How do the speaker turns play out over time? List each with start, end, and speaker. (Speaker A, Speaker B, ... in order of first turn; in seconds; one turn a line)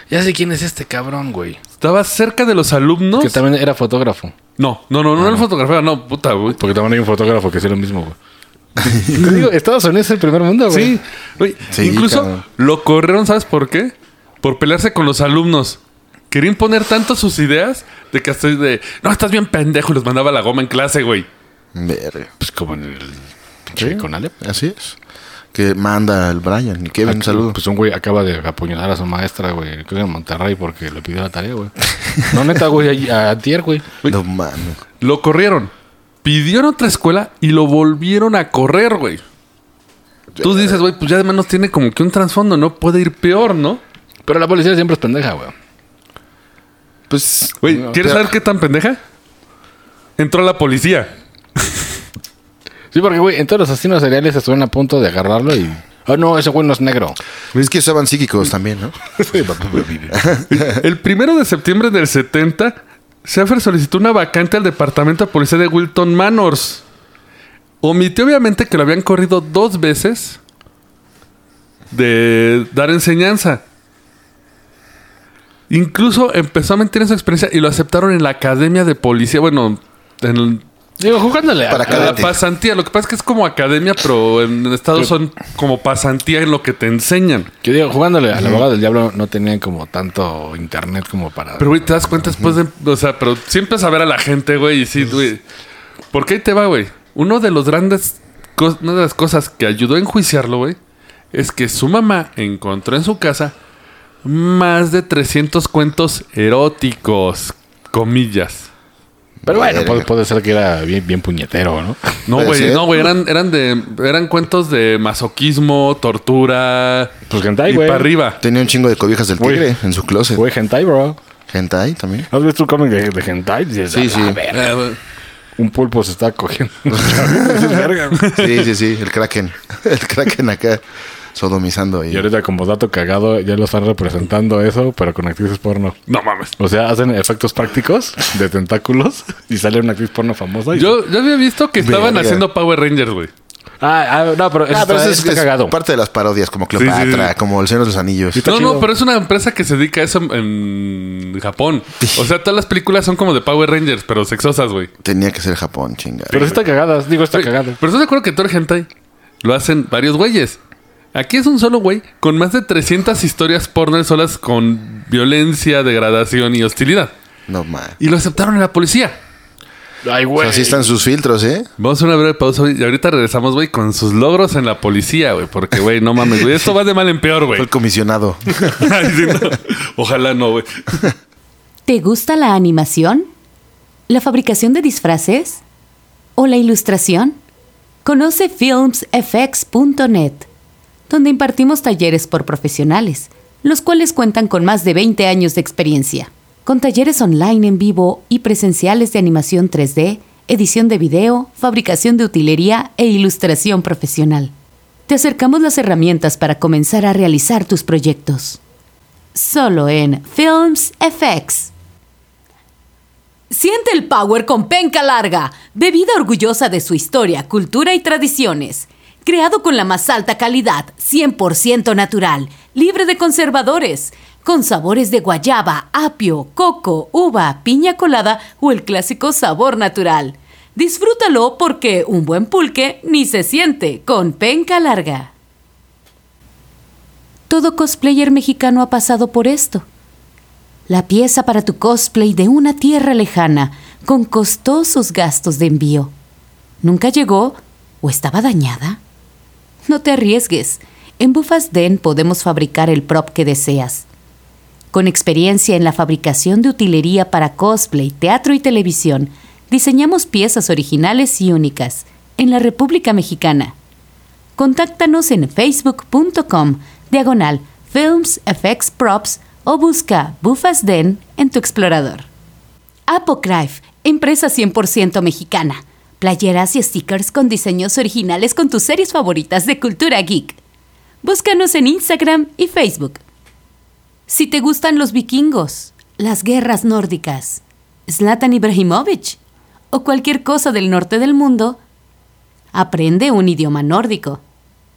Speaker A: 0.1-1.6
Speaker B: 1.8-3.4
Speaker A: 3.2-4.3
Speaker B: 4.6-6.6
Speaker A: 5.2-5.5
Speaker A: 6.6-8.2
Speaker A: 8.8-11.0
Speaker B: 10.7-15.8
Speaker C: 11.7-12.4
Speaker B: 16.3-21.3
Speaker C: 21.8-22.3
Speaker A: 22.4-24.4
Speaker C: 23.8-24.9
Speaker C: 25.5-27.6
Speaker A: 27.1-33.9
Speaker C: 34.1-34.8
Speaker B: 35.0-35.7
Speaker B: 36.2-39.2
Speaker C: 40.3-40.8
Speaker B: 40.4-43.8
Speaker A: 44.3-45.5
Speaker C: 47.1-48.3
Speaker B: 47.6-49.0
Speaker B: 50.2-51.9
Speaker A: 52.9-57.2
Speaker C: 57.5-59.0
Speaker A: 59.2-60.4
Speaker C: 60.1-60.8
Speaker B: 60.5-66.8
Speaker B: 67.8-70.4
Speaker B: 71.9-73.6
Speaker B: 75.7-80.6
Speaker A: 81.0-82.3
Speaker C: 81.7-82.4
Speaker B: 81.9-87.5
Speaker A: 87.6-92.2
Speaker B: 91.6-95.4
Speaker B: 96.1-100.8
Speaker B: 101.3-103.5
Speaker B: 104.2-108.7
Speaker C: 109.4-110.1
Speaker A: 109.5-112.3
Speaker B: 112.3-118.4
Speaker C: 112.3-112.9
Speaker A: 117.3-118.1
Speaker C: 118.4-120.4
Speaker A: 119.4-119.7
Speaker A: 120.3-121.2
Speaker C: 121.5-122.3
Speaker A: 122.3-124.8
Speaker C: 123.9-124.4
Speaker B: 124.5-125.0
Speaker A: 125.6-128.4
Speaker C: 126.9-130.8
Speaker B: 128.2-128.6
Speaker C: 131.3-132.3
Speaker A: 132.1-136.0
Speaker B: 136.1-136.5
Speaker A: 136.6-141.0
Speaker B: 140.7-143.3
Speaker C: 141.8-142.4
Speaker A: 143.8-145.8
Speaker C: 144.7-148.4
Speaker B: 146.8-147.3
Speaker A: 148.3-148.9
Speaker B: 148.4-154.9
Speaker C: 155.0-156.6
Speaker A: 156.3-157.8
Speaker B: 157.3-158.9
Speaker B: 159.4-160.6
Speaker B: 161.1-167.1
Speaker C: 167.5-168.0
Speaker B: 168.0-169.2
Speaker A: 170.0-170.9
Speaker C: 170.4-171.7
Speaker B: 171.8-177.7
Speaker C: 177.5-179.0
Speaker B: 178.6-181.1
Speaker D: 181.9-183.3
Speaker D: 184.1-185.6
Speaker D: 186.4-187.4
Speaker D: 188.1-190.5
Speaker D: 191.1-204.5
Speaker D: 205.1-208.6
Speaker D: 209.3-211.7
Speaker D: 213.5-235.3
Speaker D: 237.5-239.8
Speaker D: 240.9-246.1
Speaker D: 246.8-249.0
Speaker D: 249.9-254.1
Speaker D: 254.9-263.8
Speaker D: 264.6-272.3
Speaker D: 273.1-280.6
Speaker D: 281.2-283.2
Speaker D: 284.3-289.4
Speaker D: 289.9-291.8
Speaker D: 292.7-294.4